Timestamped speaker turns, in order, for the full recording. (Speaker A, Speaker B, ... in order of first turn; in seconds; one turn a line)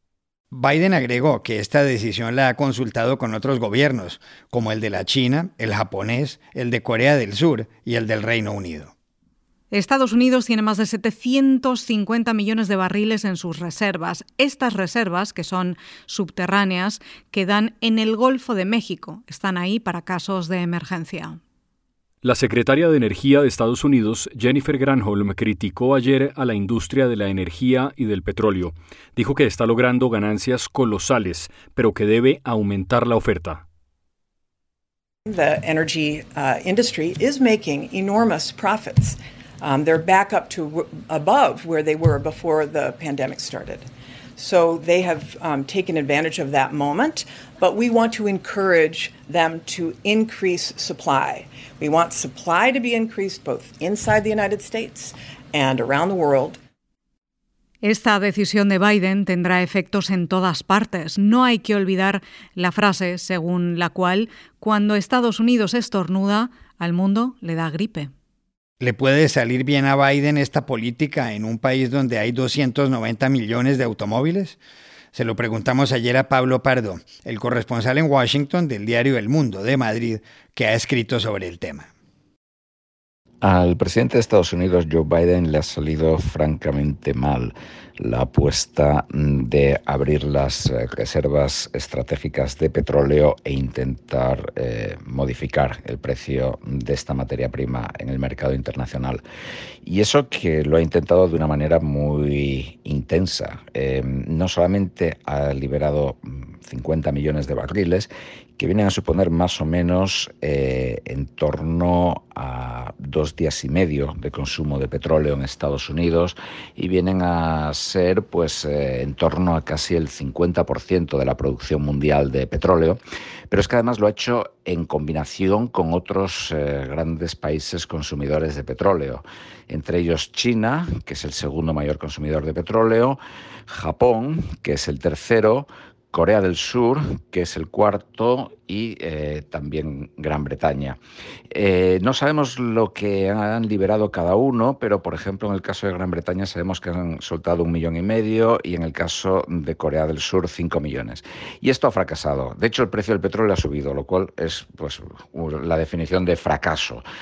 Speaker A: 0.5-8.9
Speaker B: 9.7-21.4
Speaker C: 22.2-33.6
Speaker D: 35.3-43.9
Speaker D: 44.4-56.6
Speaker B: 57.8-68.1
Speaker A: 68.8-74.6
Speaker A: 75.1-81.9
Speaker E: 83.4-99.2
Speaker E: 99.8-141.0
Speaker E: 141.5-157.1